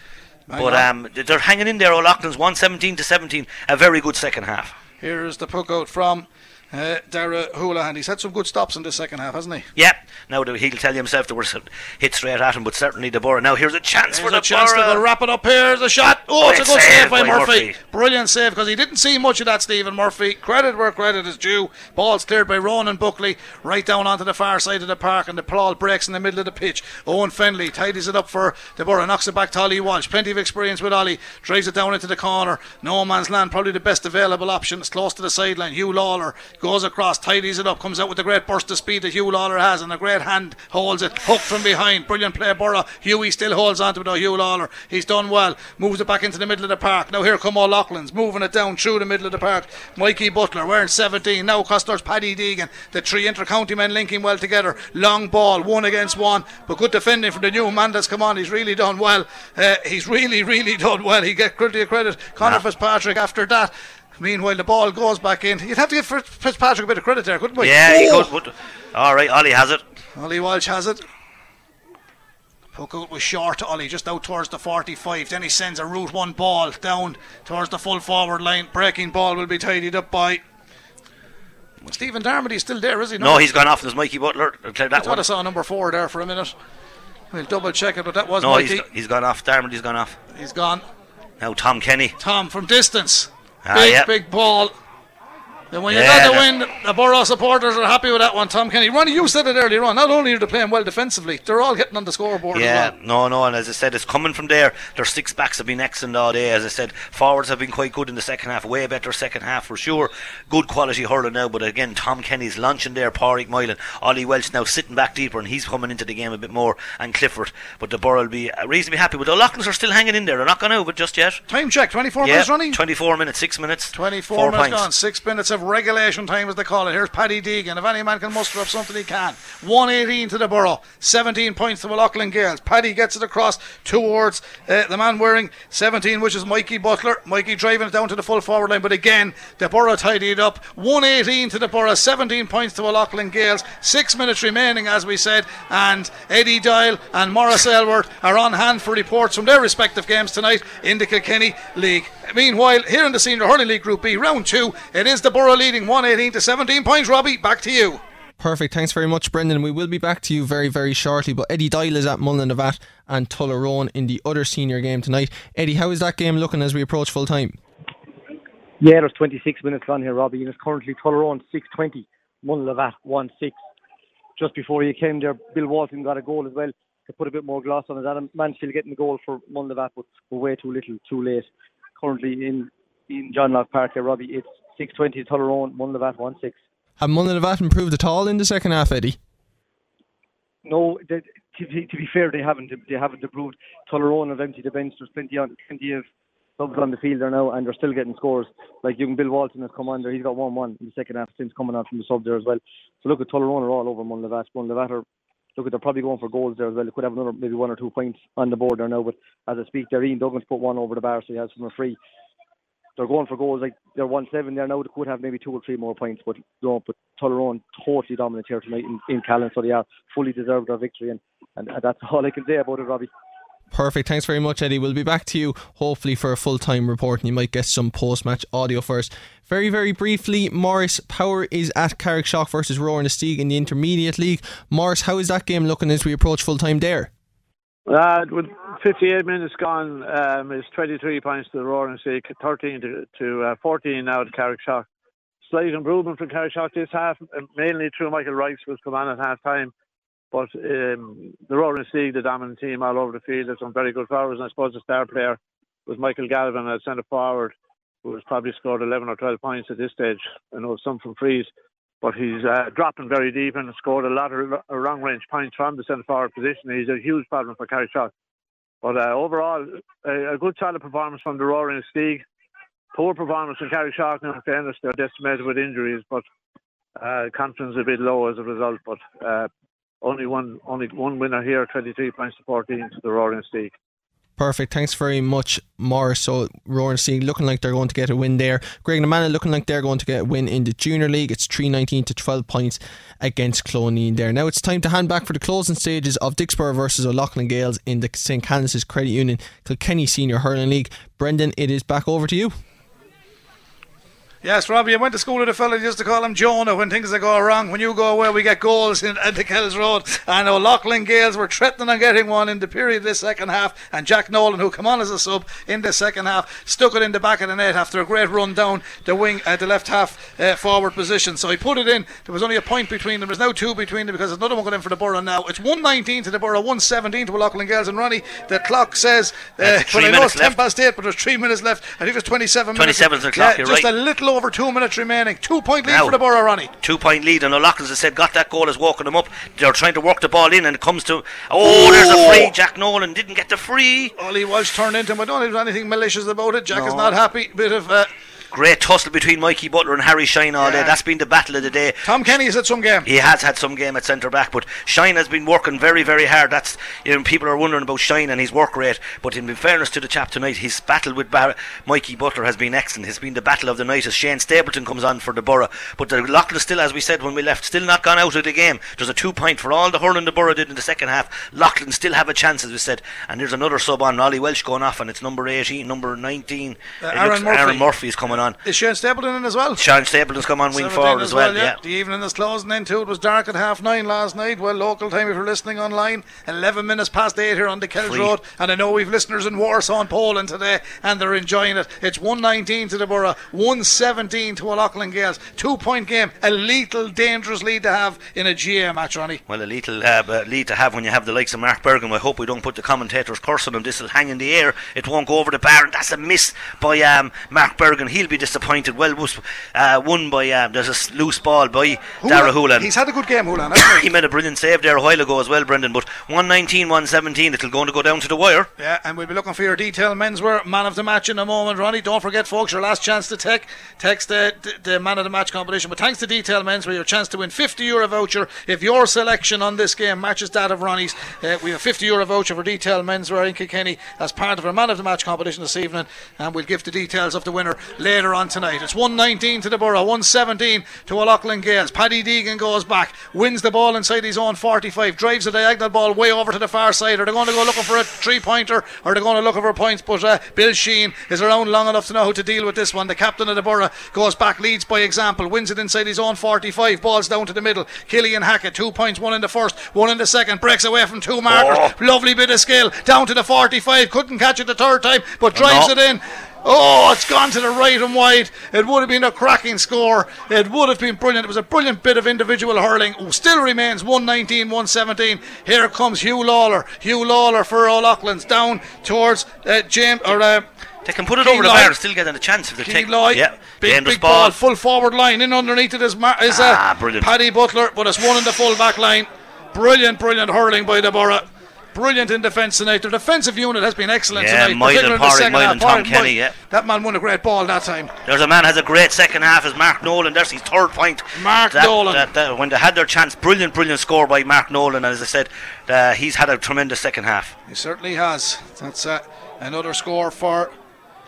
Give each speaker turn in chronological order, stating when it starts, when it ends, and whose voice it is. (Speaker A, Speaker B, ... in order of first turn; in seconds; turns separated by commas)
Speaker A: 0.5-0.8, Speaker B: 0.6-4.7, Speaker A: 5.0-9.7, Speaker B: 9.8-15.0, Speaker A: 14.1-68.3, Speaker B: 16.4-17.7, Speaker B: 67.6-69.8, Speaker A: 70.2-71.0, Speaker A: 72.7-80.4, Speaker A: 81.9-83.5, Speaker B: 83.2-85.2, Speaker A: 84.9-86.5, Speaker A: 87.3-88.8, Speaker B: 88.4-90.2, Speaker A: 90.3-90.8, Speaker B: 91.4-92.2, Speaker A: 92.2-94.7, Speaker B: 93.6-94.1, Speaker A: 95.7-102.9, Speaker B: 95.9-96.5, Speaker B: 102.5-121.4, Speaker A: 121.5-122.8, Speaker B: 122.2-124.8, Speaker A: 123.9-158.0, Speaker C: 158.4-167.6, Speaker D: 168.8-173.6, Speaker D: 174.4-181.5, Speaker D: 182.0-186.6, Speaker C: 187.0-189.2, Speaker D: 190.6-196.1, Speaker D: 196.6-205.0, Speaker D: 205.6-212.0, Speaker D: 213.0-223.1, Speaker C: 223.7-237.1, Speaker E: 237.9-244.8, Speaker E: 245.4-249.7, Speaker E: 250.3-261.5, Speaker E: 262.0-268.1, Speaker E: 268.8-272.2, Speaker E: 272.9-276.2, Speaker E: 277.0-279.5, Speaker E: 280.0-283.7, Speaker C: 284.4-302.5, Speaker A: 304.4-336.7, Speaker B: 329.6-330.6, Speaker B: 332.7-333.9, Speaker B: 335.8-336.1, Speaker B: 336.8-344.1, Speaker A: 341.6-342.5, Speaker A: 344.2-348.1, Speaker B: 346.7-347.1, Speaker B: 348.5-352.3, Speaker A: 350.6-351.0, Speaker A: 352.0-353.1, Speaker B: 353.0-378.6, Speaker A: 377.0-377.9, Speaker A: 378.6-379.8, Speaker B: 379.8-381.8, Speaker A: 380.7-399.4, Speaker B: 388.0-388.3, Speaker B: 399.5-412.9, Speaker A: 412.2-414.1, Speaker B: 413.7-418.7, Speaker A: 418.8-480.7, Speaker B: 461.5-461.9, Speaker B: 465.5-465.9, Speaker B: 481.0-484.6, Speaker A: 481.4-481.9, Speaker A: 482.8-498.1, Speaker B: 486.5-487.3, Speaker B: 494.3-496.6, Speaker B: 498.2-507.5, Speaker A: 501.3-502.3, Speaker A: 507.7-510.7